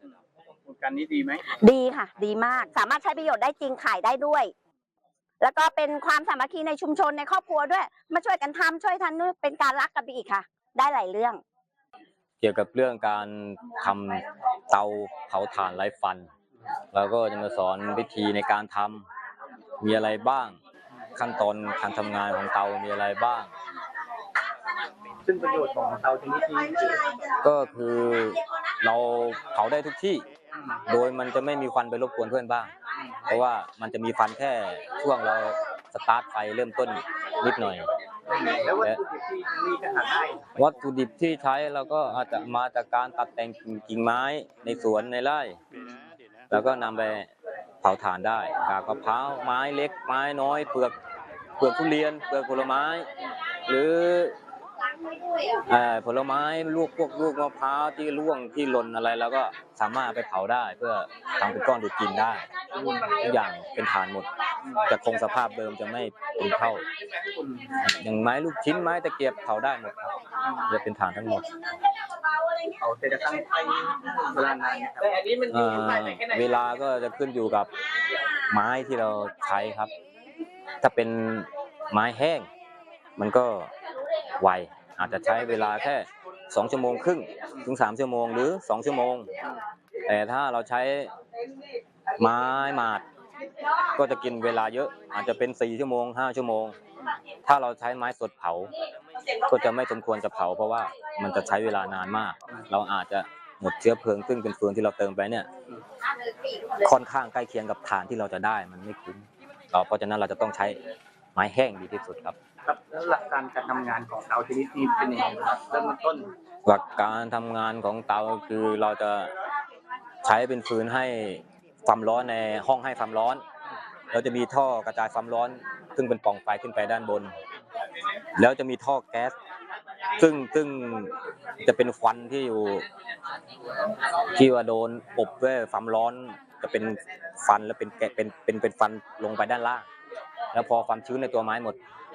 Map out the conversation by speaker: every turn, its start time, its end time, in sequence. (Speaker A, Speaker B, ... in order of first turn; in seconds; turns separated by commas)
Speaker A: 0.7-1.4, Speaker B: 1.5-4.5, Speaker B: 5.4-11.4, Speaker C: 12.4-16.3, Speaker C: 16.9-19.1, Speaker C: 19.8-20.6, Speaker C: 21.1-23.5, Speaker A: 25.2-27.1, Speaker C: 27.4-30.2, Speaker C: 30.9-32.7, Speaker C: 33.3-37.9, Speaker A: 38.3-40.4, Speaker C: 40.6-45.6, Speaker C: 46.5-47.3, Speaker C: 47.8-50.9, Speaker C: 51.6-53.1, Speaker C: 53.7-54.3, Speaker C: 55.6-62.5, Speaker A: 62.8-63.1, Speaker C: 63.0-64.3, Speaker C: 64.9-66.8, Speaker C: 67.8-71.8, Speaker A: 72.8-75.4, Speaker C: 75.4-77.7, Speaker C: 78.3-79.9, Speaker C: 80.8-82.5, Speaker C: 83.2-83.7, Speaker C: 84.4-89.3, Speaker C: 90.0-91.1, Speaker C: 92.2-93.0, Speaker C: 93.9-96.8, Speaker C: 97.5-98.7, Speaker C: 99.3-105.5, Speaker C: 106.7-110.8, Speaker C: 111.3-112.3, Speaker A: 112.6-116.3, Speaker C: 116.7-119.3, Speaker C: 120.2-123.4, Speaker C: 124.1-127.3, Speaker C: 128.4-129.3, Speaker C: 130.2-132.8, Speaker C: 134.3-139.8, Speaker C: 140.5-141.8